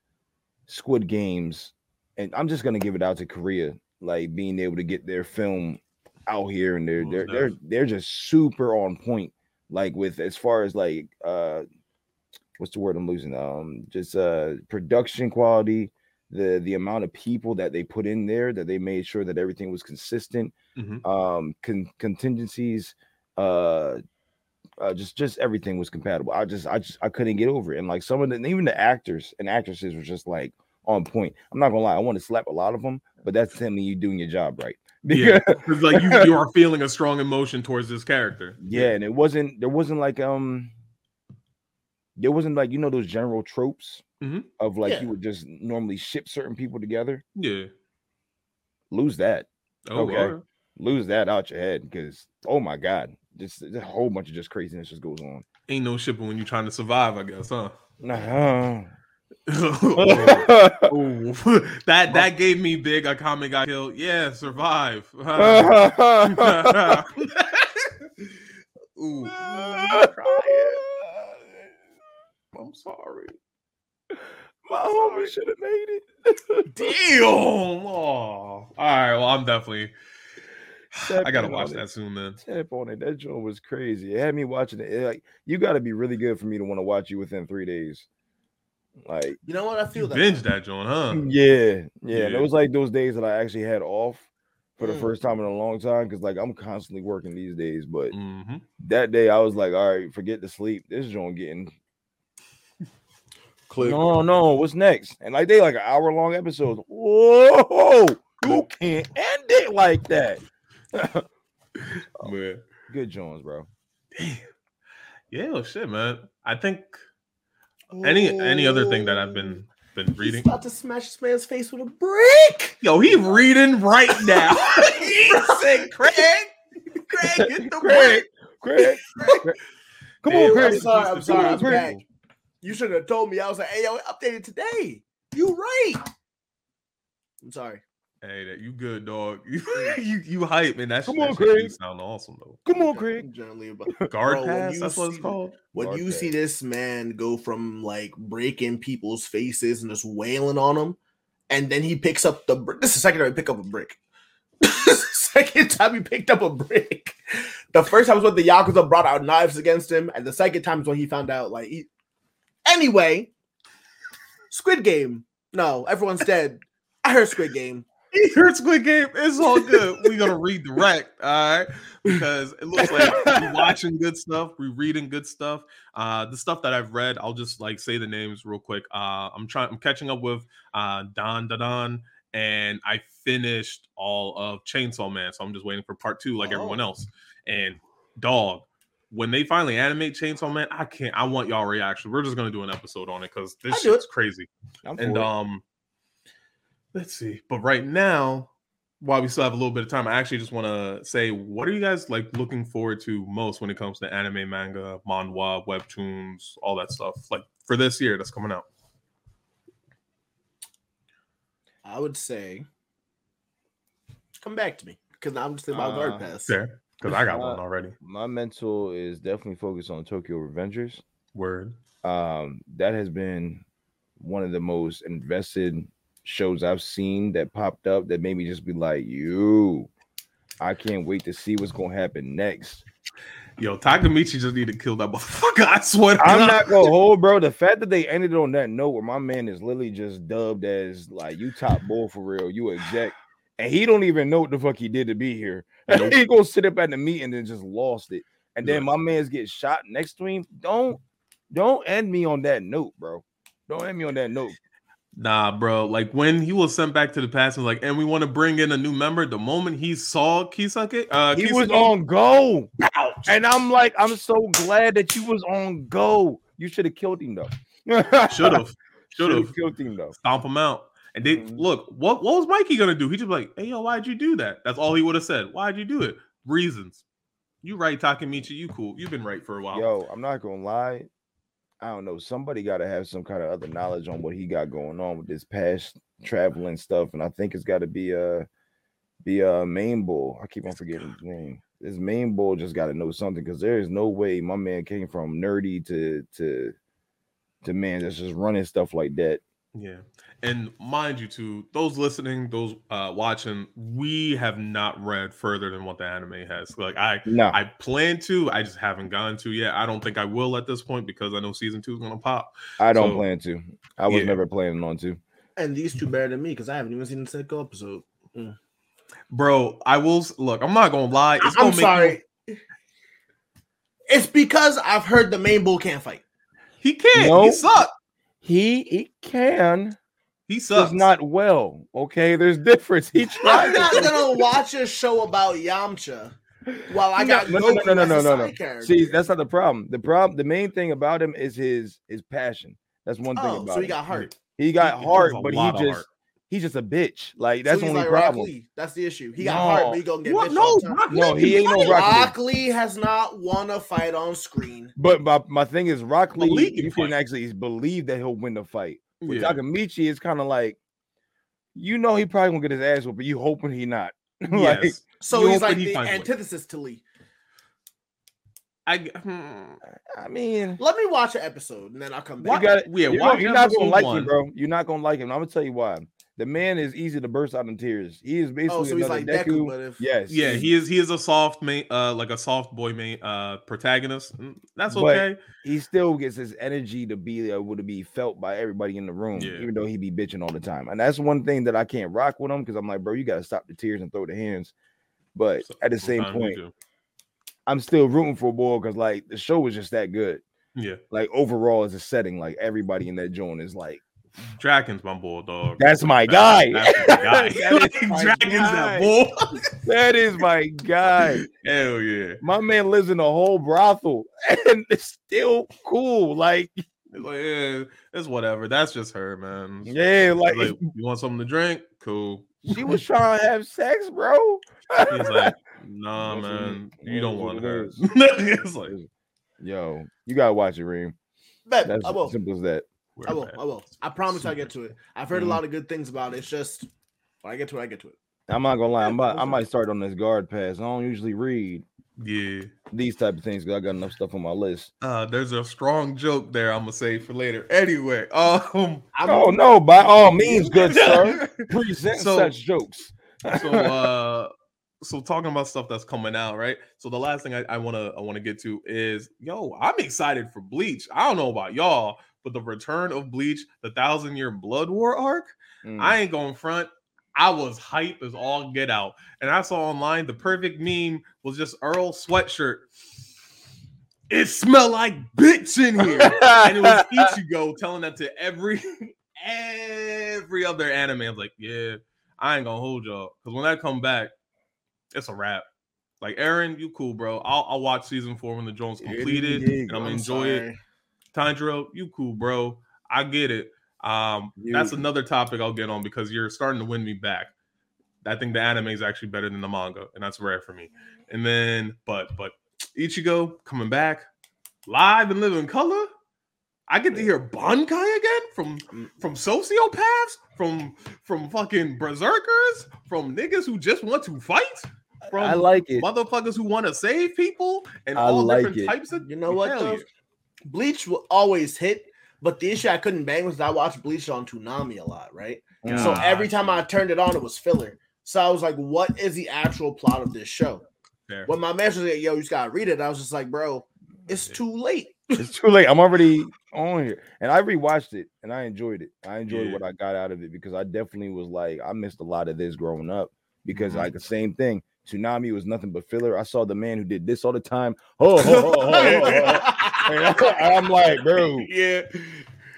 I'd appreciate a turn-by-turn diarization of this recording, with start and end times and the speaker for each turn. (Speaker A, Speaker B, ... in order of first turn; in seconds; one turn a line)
Speaker A: 0.7-11.6
Speaker B: 7.0-7.5
Speaker A: 12.6-24.0
Speaker B: 20.8-21.0
Speaker A: 24.8-36.3
Speaker B: 35.1-38.9
Speaker A: 38.6-40.7
Speaker A: 42.2-44.0
Speaker B: 44.2-44.5
Speaker A: 44.6-47.2
Speaker C: 44.8-45.1
Speaker B: 47.4-47.7
Speaker A: 48.9-55.4
Speaker B: 49.9-50.4
Speaker B: 55.7-57.7
Speaker A: 58.0-58.9
Speaker B: 59.5-67.9
Speaker A: 60.0-60.9
Speaker A: 65.3-67.0
Speaker B: 69.0-70.8
Speaker A: 69.3-71.3
Speaker B: 72.5-73.3
Speaker A: 74.6-77.0
Speaker B: 75.0-75.3
Speaker B: 76.7-79.9
Speaker B: 80.9-82.4
Speaker A: 81.0-81.8
Speaker A: 82.4-88.0
Speaker A: 89.0-89.4
Speaker C: 89.5-90.4
Speaker B: 89.9-91.2
Speaker A: 91.1-98.1
Speaker B: 92.1-92.5
Speaker C: 94.8-95.1
Speaker B: 98.1-98.6
Speaker A: 98.8-101.7
Speaker B: 103.7-104.2
Speaker A: 103.8-110.4
Speaker A: 110.9-111.3
Speaker B: 112.2-112.6
Speaker A: 112.9-113.7
Speaker B: 114.1-114.5
Speaker B: 115.3-116.9
Speaker A: 117.9-119.6
Speaker B: 118.0-120.5
Speaker C: 120.2-122.8
Speaker B: 122.8-128.1
Speaker C: 124.2-126.3
Speaker C: 127.1-128.2
Speaker A: 127.3-129.6
Speaker C: 129.2-129.4
Speaker A: 130.2-131.9
Speaker B: 130.2-132.0
Speaker C: 130.3-132.0
Speaker C: 132.6-136.0
Speaker C: 137.4-137.8
Speaker B: 138.2-142.6
Speaker A: 141.1-141.8
Speaker A: 142.7-143.3
Speaker C: 142.7-151.0
Speaker B: 144.1-145.6
Speaker A: 145.8-146.3
Speaker C: 151.5-154.0
Speaker C: 154.6-161.9
Speaker C: 162.6-163.3
Speaker C: 164.5-167.9
Speaker B: 168.1-195.6
Speaker A: 172.8-173.8
Speaker C: 186.4-186.8
Speaker C: 193.7-194.0
Speaker A: 194.8-195.3
Speaker B: 196.9-208.6
Speaker C: 211.8-212.7
Speaker C: 214.4-216.6
Speaker A: 215.7-216.2
Speaker B: 216.4-217.9
Speaker A: 217.0-221.0
Speaker B: 221.3-221.8
Speaker A: 222.0-223.6
Speaker A: 224.2-229.9
Speaker A: 230.6-232.8
Speaker B: 233.6-236.9
Speaker A: 236.2-251.0
Speaker B: 245.9-246.2
Speaker A: 251.5-254.6
Speaker B: 255.1-261.9
Speaker A: 261.3-268.6
Speaker B: 268.3-269.5
Speaker A: 269.1-270.1
Speaker B: 270.2-277.0
Speaker A: 271.2-271.6
Speaker B: 277.6-279.9
Speaker A: 279.7-281.1
Speaker A: 281.8-288.4
Speaker A: 289.2-296.7
Speaker B: 290.8-291.1
Speaker A: 297.6-299.4
Speaker B: 299.7-313.2
Speaker A: 307.2-307.6
Speaker A: 312.8-315.2
Speaker B: 314.1-314.4
Speaker C: 315.6-318.6
Speaker B: 319.3-322.2
Speaker C: 321.4-322.6
Speaker C: 324.1-326.2
Speaker B: 326.8-327.9
Speaker A: 327.1-327.6
Speaker A: 328.4-329.9
Speaker B: 330.5-331.1
Speaker A: 330.7-334.2
Speaker B: 333.4-334.1
Speaker C: 333.4-336.4
Speaker A: 336.7-344.0
Speaker C: 336.9-339.1
Speaker C: 343.3-344.3
Speaker B: 344.1-346.1
Speaker A: 344.5-348.5
Speaker C: 347.6-354.9
Speaker A: 349.4-350.0
Speaker B: 350.2-352.2
Speaker A: 351.1-352.3
Speaker A: 354.9-360.8
Speaker B: 356.4-357.1
Speaker B: 359.2-359.6
Speaker A: 361.7-365.0
Speaker B: 364.5-366.3
Speaker C: 365.2-367.0
Speaker B: 368.9-369.8
Speaker A: 370.1-370.8
Speaker C: 370.8-372.7
Speaker A: 372.4-380.7
Speaker B: 372.5-374.3
Speaker C: 378.7-380.0
Speaker B: 380.3-385.4
Speaker A: 384.9-394.7
Speaker B: 389.3-389.7
Speaker A: 395.3-396.6
Speaker B: 395.6-396.7
Speaker A: 397.7-400.4
Speaker B: 400.7-401.0
Speaker A: 401.1-404.0
Speaker B: 404.6-409.7
Speaker A: 405.8-409.1
Speaker A: 409.8-411.4
Speaker B: 411.3-412.4
Speaker A: 412.4-416.8
Speaker B: 417.1-423.0
Speaker A: 419.9-420.8
Speaker A: 422.6-425.5
Speaker B: 425.1-428.9
Speaker A: 426.2-428.0
Speaker A: 429.6-431.1
Speaker C: 431.7-432.4
Speaker A: 431.8-432.9
Speaker B: 433.2-433.6
Speaker C: 433.3-436.9
Speaker B: 434.3-434.7
Speaker B: 435.3-435.6
Speaker C: 437.4-438.1
Speaker A: 438.5-441.8
Speaker B: 442.2-442.7
Speaker A: 442.9-444.9
Speaker B: 445.0-449.1
Speaker C: 449.1-449.6
Speaker A: 449.2-453.9
Speaker C: 450.4-451.0
Speaker B: 450.8-452.5
Speaker B: 453.5-454.5
Speaker B: 455.0-472.9
Speaker A: 465.8-466.2
Speaker B: 474.3-484.3
Speaker A: 476.0-477.3
Speaker B: 485.1-485.6
Speaker B: 486.2-490.6
Speaker A: 489.0-490.2
Speaker C: 490.0-490.8
Speaker B: 491.3-497.5
Speaker A: 494.6-495.0
Speaker B: 498.2-504.2
Speaker B: 504.9-506.1
Speaker B: 506.9-520.0
Speaker A: 515.3-516.0
Speaker A: 518.1-518.9
Speaker C: 519.2-520.0
Speaker C: 520.7-530.8
Speaker A: 525.8-526.2
Speaker B: 525.8-526.8
Speaker C: 531.5-535.5
Speaker A: 535.4-551.7
Speaker B: 539.5-539.8
Speaker B: 543.7-544.1
Speaker C: 548.4-550.2
Speaker B: 548.9-549.6
Speaker B: 551.3-552.4